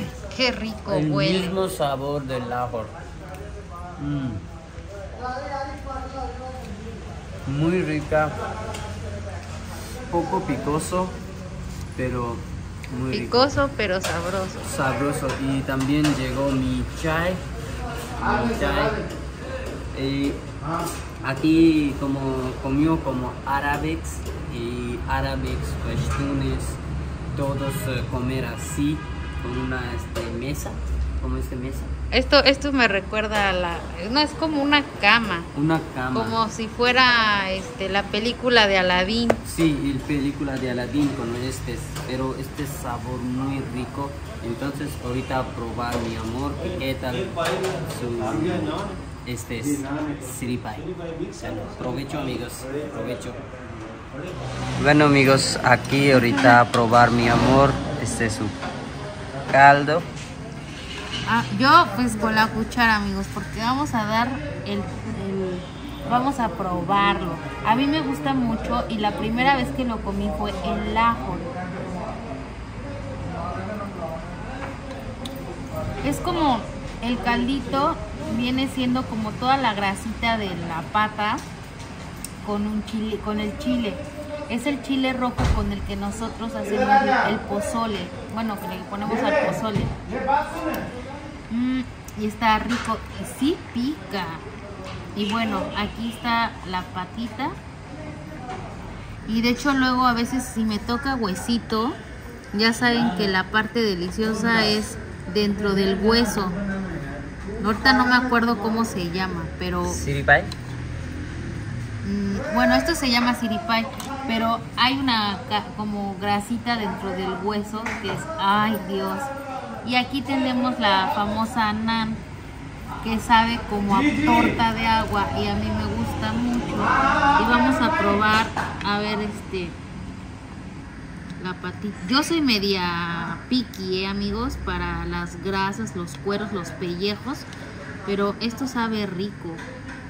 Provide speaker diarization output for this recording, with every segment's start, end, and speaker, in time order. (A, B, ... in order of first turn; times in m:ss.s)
0:00.3-0:01.6 A
0:00.9-0:02.9 B
0:04.0-0:04.4 B
0:07.5-0:08.4 B
0:10.1-0:11.2 B
0:12.0-0:13.6 B
0:13.1-0:14.7 A
0:14.6-0:17.4 B
0:18.2-0:19.0 B
0:19.9-0:20.4 B
0:21.2-0:26.8 B
0:27.3-0:31.9 B
0:32.1-0:35.5 A
0:35.5-0:36.4 B
0:36.1-0:39.4 A
0:39.4-0:53.4 B
0:54.8-0:58.6 B
0:56.2-0:56.6 A
0:59.5-1:00.1 B
1:01.3-1:11.6 A
1:16.0-1:21.4 A
1:22.4-1:30.0 A
1:31.5-1:34.5 A
1:35.2-1:37.6 A
1:39.3-1:42.0 A
1:42.5-1:46.6 A
1:47.6-1:50.0 A
1:49.8-1:50.5 B
1:52.0-1:59.3 A
1:59.8-2:02.2 A
2:03.0-2:09.8 A
2:11.4-2:17.5 A
2:18.0-2:19.6 A